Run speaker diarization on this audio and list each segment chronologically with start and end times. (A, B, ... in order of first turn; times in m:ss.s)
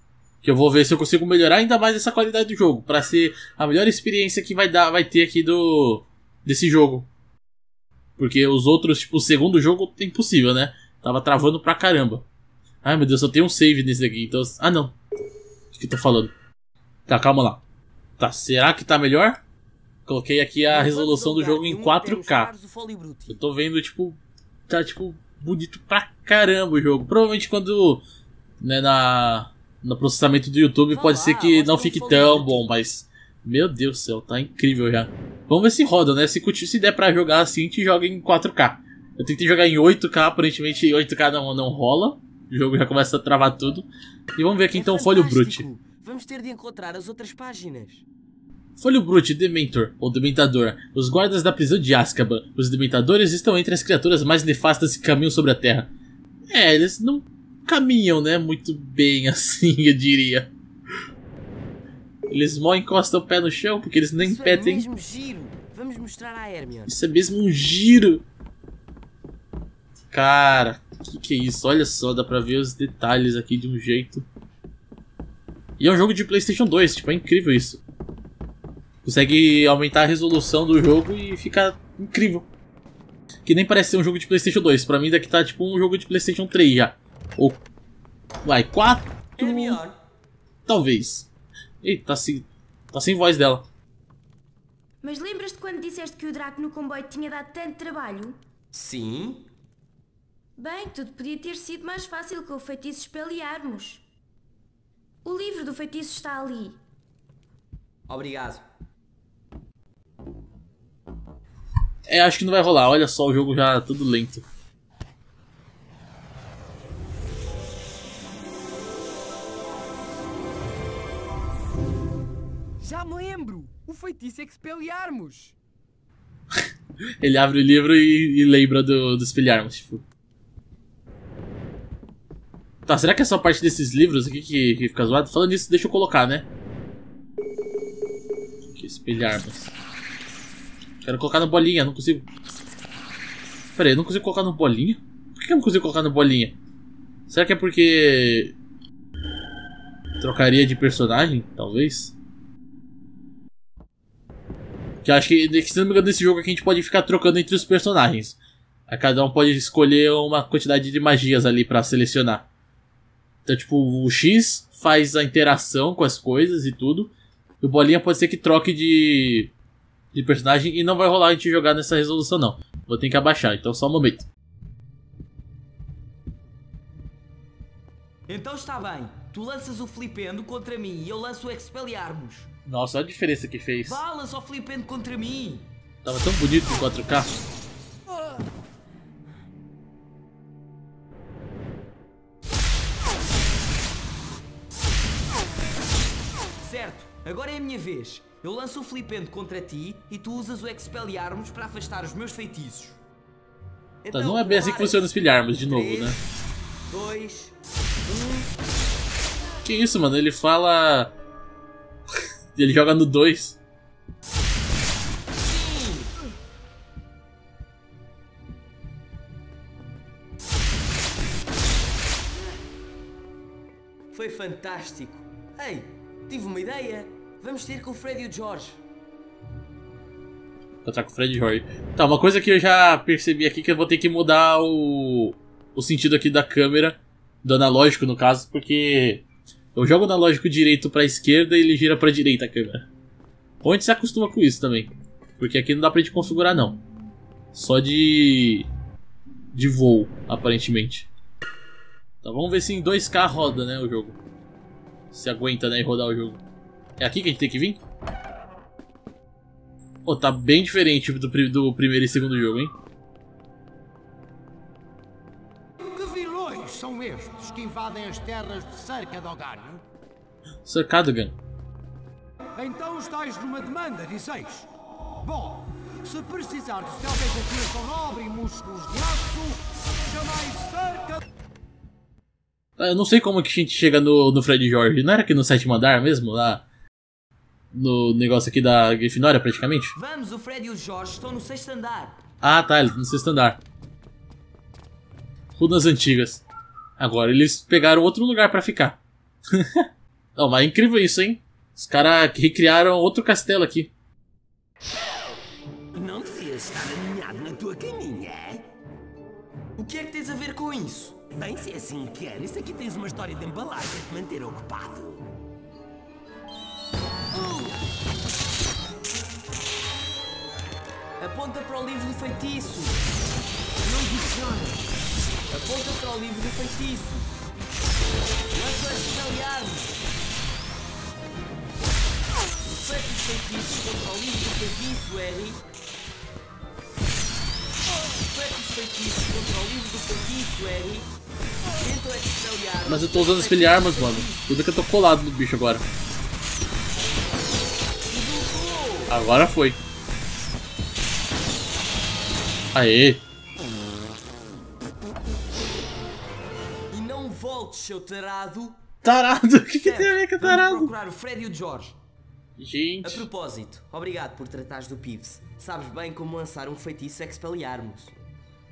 0:00.4-0:07.1 A
0:08.2-0:12.2 A
0:12.8-0:14.9 A
0:15.7-0:16.3 A
0:17.1-0:17.6 A
0:18.2-0:19.4 A
0:20.0-0:22.5 A
0:20.7-0:23.4 B
0:23.3-0:24.2 A
0:24.7-0:28.0 A
0:28.6-0:45.6 A
0:30.9-0:32.6 B
0:44.7-0:48.0 B
0:48.8-0:55.9 A
0:56.5-1:00.5 A
1:02.3-1:04.8 A
1:04.2-1:06.9 B
1:06.9-1:08.2 A
1:10.1-1:14.2 A
1:15.8-1:17.8 A
1:19.0-1:22.5 A
1:23.4-1:27.6 A
1:28.4-1:29.8 A
1:29.4-1:29.9 B
1:30.7-1:31.3 A
1:31.8-1:33.6 A
1:35.0-1:38.4 C
1:38.7-1:39.5 B
1:40.6-1:44.0 C
1:45.2-1:46.8 C
1:48.1-1:48.6 B
1:52.1-1:54.4 A
2:02.8-2:05.5 D
2:07.2-2:10.0 A
2:12.8-2:16.4 A
2:18.7-2:19.7 A
2:21.0-2:22.2 A
2:23.7-2:26.6 A
2:27.3-2:28.5 A
2:30.2-2:32.1 A
2:35.0-2:42.4 A
2:43.4-2:49.5 A
2:50.1-2:54.2 A
2:58.3-3:02.5 B
3:02.7-3:04.0 A
3:03.8-3:05.7 B
3:06.0-3:07.3 A
3:16.6-3:23.0 B
3:24.0-3:26.2 B
3:24.1-3:26.2 A
3:26.9-3:27.5 B
3:28.1-3:28.5 B
3:29.6-3:31.1 A
3:32.5-3:33.6 A
3:35.4-3:36.1 B
3:44.1-3:48.8 B
3:50.8-3:59.2 A
3:59.7-4:02.9 A
4:03.6-4:06.8 A
4:07.5-4:08.7 A
4:09.5-4:11.1 A
4:12.2-4:14.2 A
4:15.1-4:16.4 A
4:17.0-4:17.8 A
4:20.0-4:22.7 A
4:25.9-4:29.8 E
4:30.6-4:31.3 A
4:32.6-4:34.7 E
4:35.2-4:41.2 E
4:42.8-4:46.6 A
4:47.7-4:49.9 A
4:49.9-4:52.2 B
4:52.4-4:53.6 A
4:55.6-4:56.4 A
4:57.0-4:59.0 A
4:59.5-5:03.9 A
5:05.9-5:08.6 F
5:09.8-5:11.2 B
5:11.4-5:15.2 F
5:17.3-5:17.7 B
5:21.2-5:23.0 B
5:25.5-5:27.3 B
5:28.5-5:29.9 B
5:32.7-5:35.6 B
5:38.2-5:41.1 B
5:41.8-5:44.5 B
5:42.8-5:45.8 A
5:48.1-5:49.2 B
5:49.1-5:49.8 A
5:52.7-5:53.2 A
5:56.9-5:58.8 B
5:59.0-6:00.9 A
5:59.8-6:02.0 B
6:02.6-6:03.3 A
6:03.0-6:08.1 B